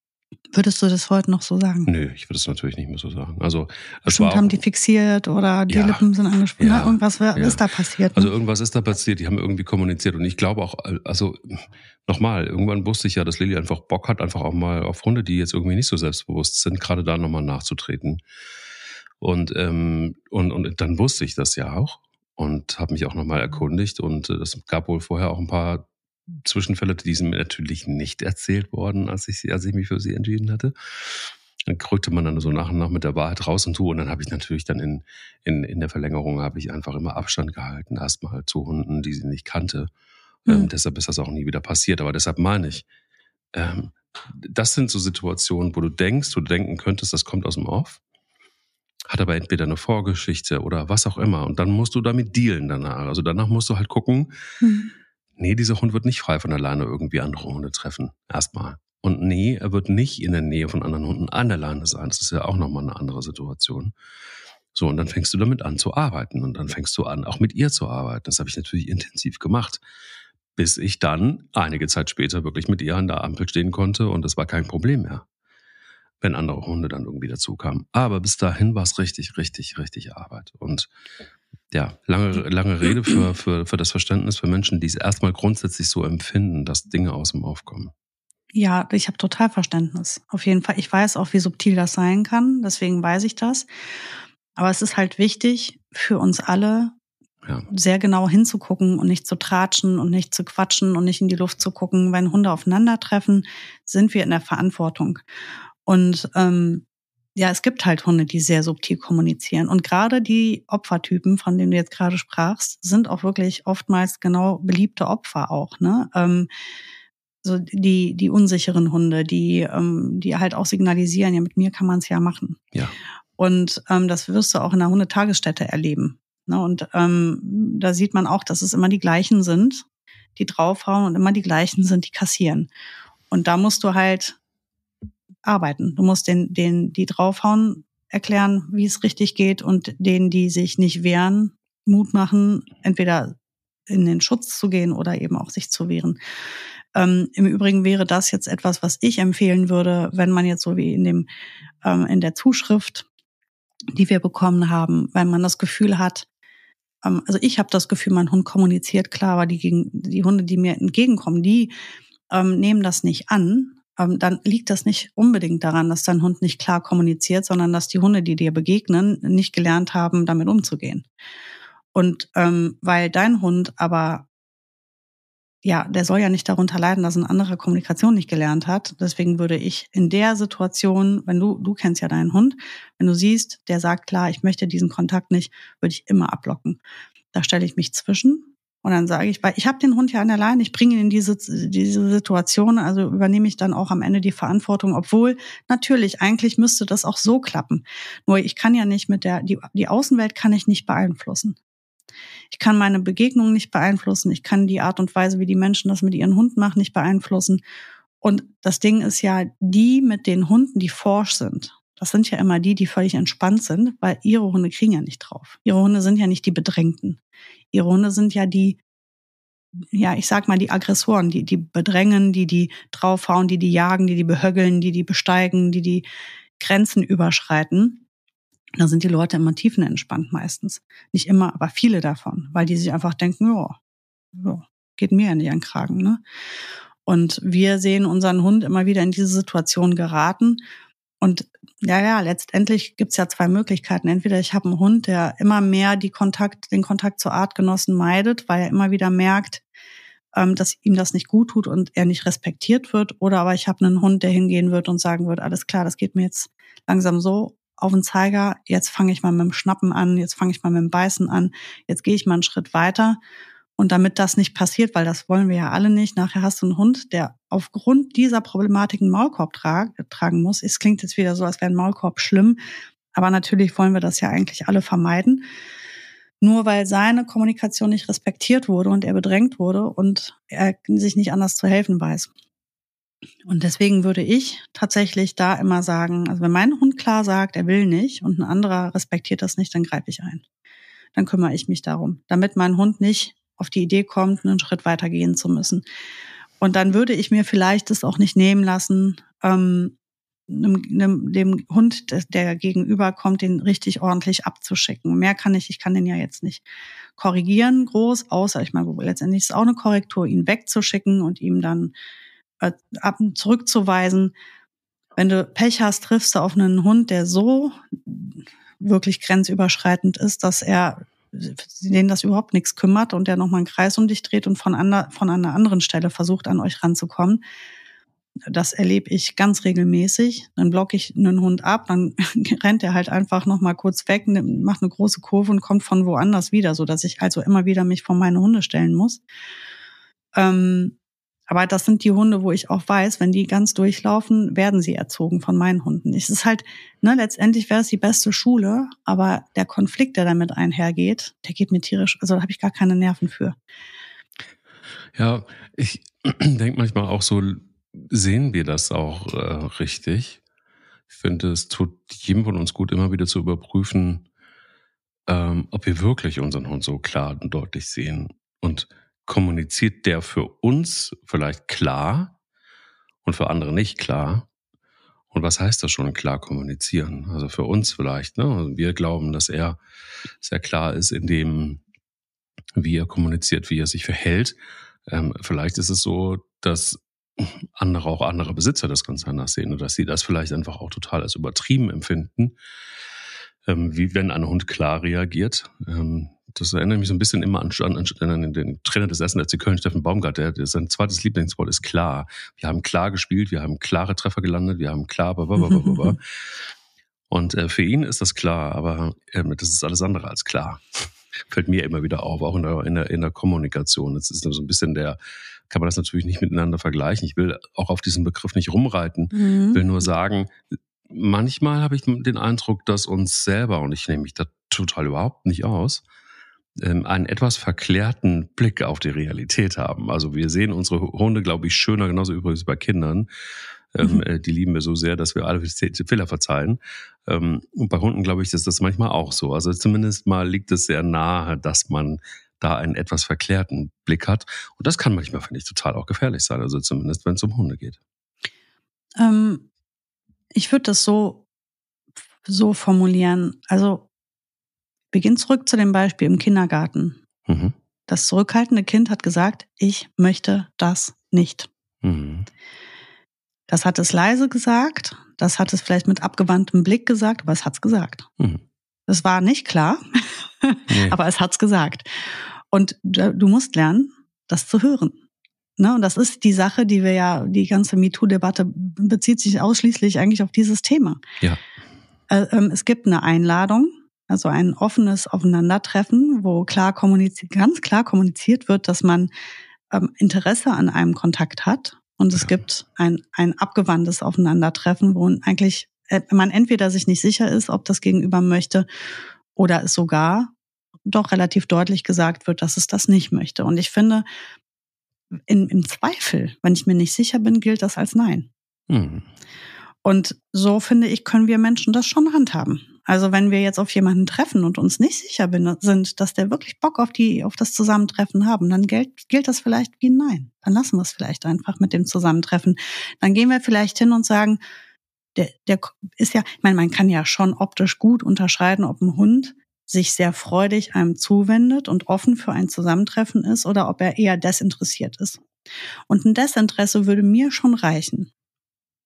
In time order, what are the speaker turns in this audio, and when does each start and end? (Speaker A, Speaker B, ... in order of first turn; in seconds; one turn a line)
Speaker A: 0.5-1.9
Speaker B: 1.9-4.6
Speaker A: 4.1-8.3
Speaker B: 5.7-6.0
Speaker B: 6.6-18.2
Speaker B: 19.2-25.9
Speaker B: 26.4-30.7
Speaker B: 31.7-39.9
Speaker B: 40.5-42.9
Speaker B: 43.5-48.0
Speaker B: 49.1-54.3
Speaker A: 54.6-54.9
Speaker B: 55.4-63.9
Speaker B: 64.7-69.8
Speaker B: 70.5-75.2
Speaker B: 76.2-80.9
Speaker B: 81.7-87.9
Speaker A: 88.5-93.7
Speaker A: 94.5-97.0
Speaker A: 97.7-105.2
Speaker A: 105.8-116.5
Speaker A: 117.4-122.6
Speaker A: 123.4-129.8
Speaker A: 130.3-132.7
Speaker A: 133.3-134.4
Speaker A: 135.4-143.3
Speaker A: 143.9-146.2
Speaker A: 146.9-151.3
Speaker A: 151.8-153.1
Speaker A: 153.9-156.2
Speaker A: 157.0-161.7
Speaker A: 162.3-171.1
Speaker A: 171.9-174.2
Speaker A: 175.6-186.8
Speaker A: 187.3-201.6
Speaker A: 202.5-207.6
Speaker A: 208.2-217.2
Speaker A: 217.7-218.8
Speaker A: 219.8-226.0
Speaker A: 226.6-228.0
Speaker A: 228.8-233.8
Speaker A: 234.3-236.2
Speaker A: 237.1-240.6
Speaker A: 241.2-249.6
Speaker A: 250.3-263.2
Speaker A: 263.8-272.6
Speaker A: 273.1-275.4
Speaker A: 276.4-282.3
Speaker A: 283.4-290.4
Speaker A: 291.1-295.8
Speaker A: 296.6-299.9
Speaker A: 300.5-306.6
Speaker A: 307.2-311.9
Speaker A: 312.6-314.3
Speaker A: 315.1-327.4
Speaker A: 328.5-339.2
Speaker A: 340.3-341.0
Speaker A: 341.5-353.6
Speaker B: 355.1-360.4
Speaker B: 361.1-364.2
Speaker B: 365.3-372.3
Speaker B: 373.2-374.5
Speaker B: 375.3-379.8
Speaker B: 380.4-381.8
Speaker B: 382.8-384.6
Speaker B: 385.1-392.5
Speaker B: 393.6-406.2
Speaker A: 405.6-406.1
Speaker B: 407.3-415.2
Speaker B: 415.7-426.0
Speaker A: 419.3-419.8
Speaker B: 426.8-433.3
Speaker B: 433.9-448.0
Speaker A: 449.2-449.7
Speaker A: 450.5-451.4
Speaker A: 452.4-454.1
Speaker A: 455.1-457.2
Speaker B: 457.5-457.7
Speaker A: 458.1-461.7
Speaker B: 462.0-462.5
Speaker A: 463.7-468.3
Speaker A: 469.1-475.2
Speaker B: 470.9-471.2
Speaker A: 475.8-481.2
Speaker A: 482.3-489.3
Speaker A: 489.9-498.9
Speaker A: 499.5-500.5
Speaker A: 501.1-504.2
Speaker A: 505.5-508.5
Speaker B: 508.9-509.3
Speaker A: 510.0-524.6
Speaker A: 525.4-535.4
Speaker A: 536.1-538.3